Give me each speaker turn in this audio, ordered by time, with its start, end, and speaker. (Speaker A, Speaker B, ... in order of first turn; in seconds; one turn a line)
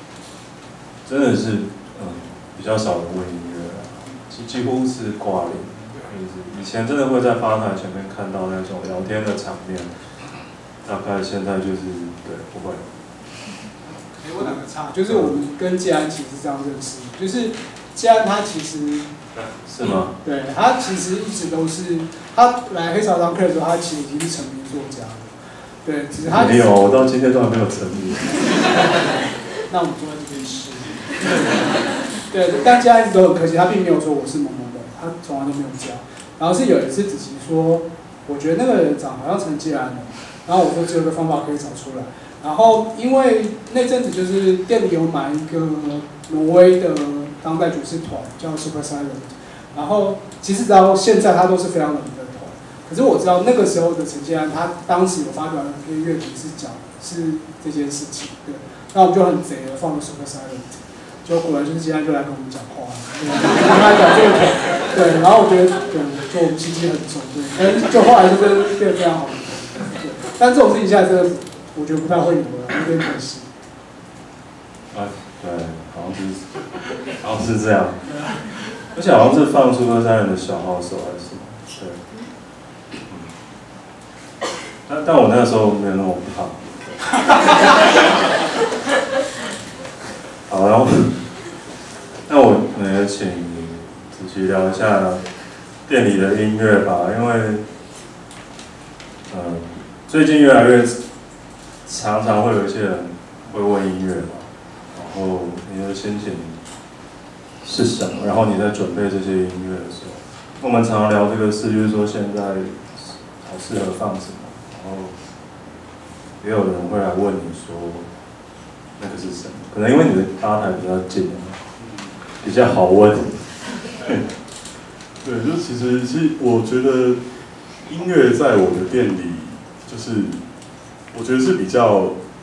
Speaker A: 1.1-9.9
Speaker A: 10.8-13.0
Speaker B: 14.2-19.1
Speaker A: 19.3-20.1
Speaker B: 20.2-26.7
Speaker A: 26.2-28.4
Speaker B: 29.7-31.7
Speaker B: 32.3-73.5
Speaker A: 74.9-76.6
Speaker A: 77.2-78.1
Speaker A: 78.9-82.0
Speaker A: 83.1-83.3
Speaker A: 84.9-87.0
Speaker A: 90.5-91.3
Speaker A: 92.3-95.2
Speaker A: 95.9-97.7
Speaker A: 99.3-101.0
Speaker A: 101.9-106.6
Speaker A: 107.6-115.2
Speaker A: 116.4-118.1
Speaker A: 119.0-121.7
Speaker C: 121.8-122.2
Speaker A: 122.4-124.2
Speaker C: 125.2-127.2
Speaker C: 127.9-130.4
Speaker C: 131.1-132.2